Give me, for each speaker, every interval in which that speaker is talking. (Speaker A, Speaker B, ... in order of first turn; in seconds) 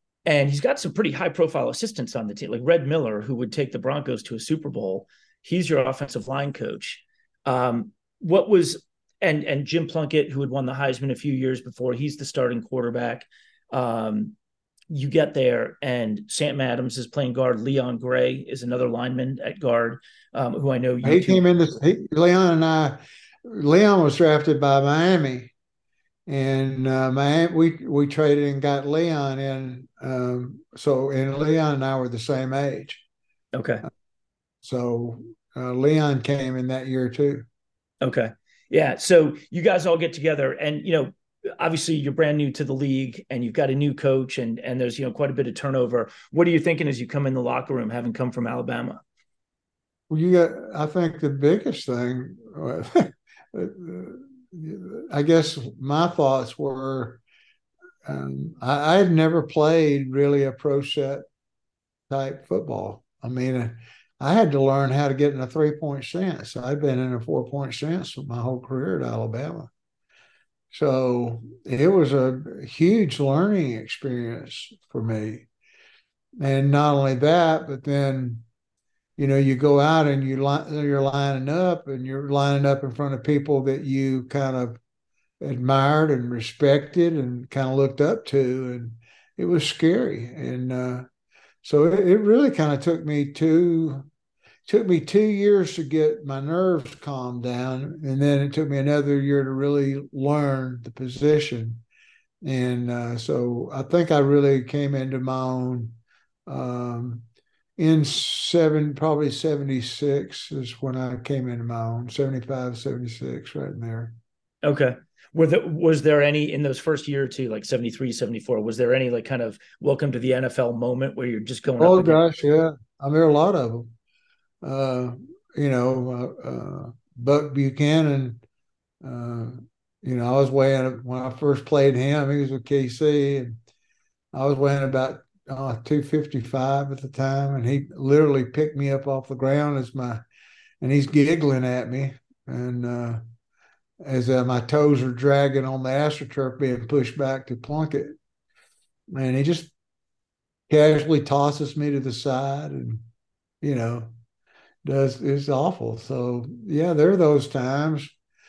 Speaker A: 0.2-14.3, 14.9-21.4, 33.5-33.8, 38.0-49.0, 114.6-122.2
Speaker B: 21.0-25.5, 26.3-33.0, 34.6-37.5, 50.1-57.2, 58.0-61.2, 62.1-69.7, 70.7-75.5, 76.4-78.4, 79.2-84.8, 85.4-91.0, 91.6-94.1, 94.7-101.8, 102.4-107.2, 107.8-114.2, 121.8-123.9, 124.6-128.4, 129.0-133.6, 134.3-140.2, 140.8-143.2, 144.0-148.1, 149.1-149.7, 150.7-153.0, 153.6-154.1, 154.8-158.1